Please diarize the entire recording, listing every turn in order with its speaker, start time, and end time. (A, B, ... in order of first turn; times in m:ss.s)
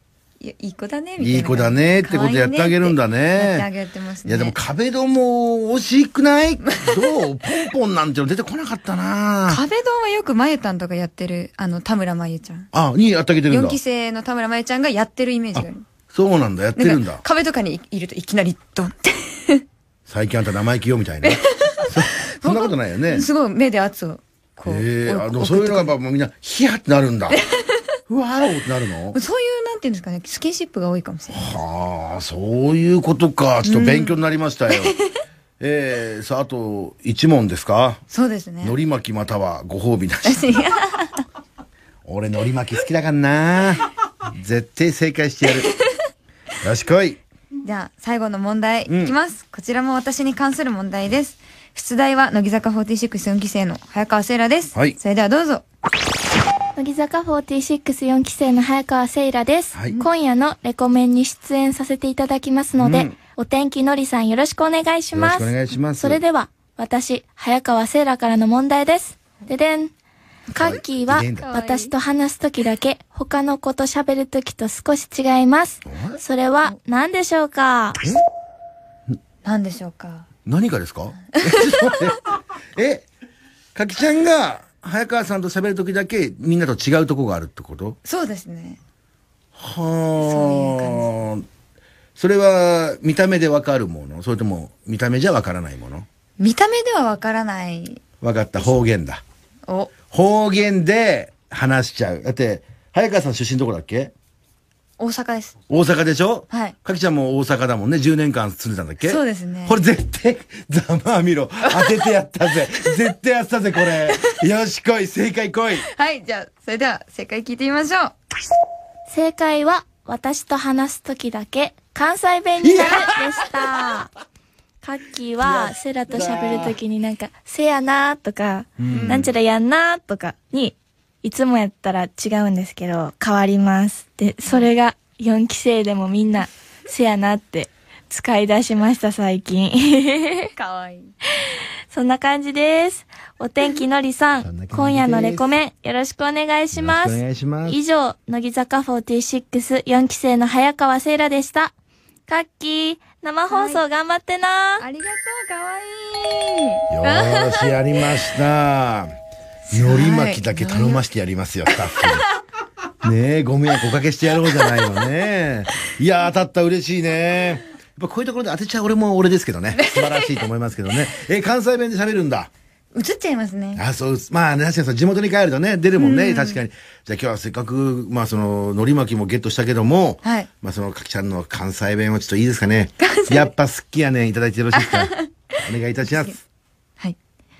0:00.4-0:04.6 A
0:01.2-0:03.7 B
0:04.2-0:09.6 B
0:09.5-0:12.7 A
0:12.7-0:13.8 B
0:13.5-0:15.8 A
0:15.6-0:17.2 B
0:16.8-0:19.6 A
0:20.1-0:23.3 B
0:21.2-0:25.9 A
0:24.7-0:27.4 B
0:27.3-0:27.6 A
0:28.1-0:29.2 B
0:29.1-0:31.5 A
0:31.3-0:35.0 B
0:33.6-0:34.2 A
0:34.7-0:35.0 A
0:35.6-0:38.0 B
0:38.1-0:38.8 A
0:38.6-0:40.6 B
0:40.2-0:41.2 A
0:42.0-0:45.7 B
0:46.6-0:47.2 B
0:47.6-0:55.6 A
0:48.9-0:49.1 B
0:56.8-1:09.9 C
0:59.7-1:00.0 B
1:02.8-1:03.2 B
1:05.1-1:06.2 B
1:10.5-1:18.0 C
1:10.6-1:11.5 B
1:11.4-1:11.9 A
1:15.9-1:16.2 B
1:19.4-1:20.3 A
1:20.5-1:22.2 B
1:21.3-1:22.0 A
1:22.8-1:23.1 B
1:23.8-1:28.0 B
1:28.0-1:28.8 A
1:29.6-1:31.5 B
1:30.2-1:31.1 A
1:32.2-1:36.1 B
1:36.4-1:38.0 A
1:38.2-1:39.2 B
1:39.7-1:39.9 A
1:40.1-1:44.1 B
1:45.0-1:45.6 A
1:45.7-1:55.9 B
1:46.5-1:46.8 A
1:49.0-1:49.8 A
1:55.8-1:58.1 A
1:59.1-2:04.1 C
2:02.6-2:03.3 B
2:04.8-2:20.5 C
2:05.4-2:06.8 B
2:08.8-2:09.3 B
2:08.9-2:09.3 A
2:20.6-2:21.1 A
2:21.9-2:31.7 C
2:24.4-2:25.6 B
2:26.7-2:27.8 B
2:32.3-2:34.8 C
2:33.5-2:33.8 A
2:34.8-2:37.8 A
2:36.9-2:39.1 B
2:39.7-2:41.0 A
2:39.7-2:42.2 B
2:43.0-2:52.5 B
2:49.8-2:50.3 A
2:52.9-2:53.8 A
2:53.8-3:06.4 B
2:56.0-2:56.6 A
3:00.2-3:00.5 A
3:03.0-3:03.5 A
3:04.8-3:05.2 A
3:06.1-3:06.4 A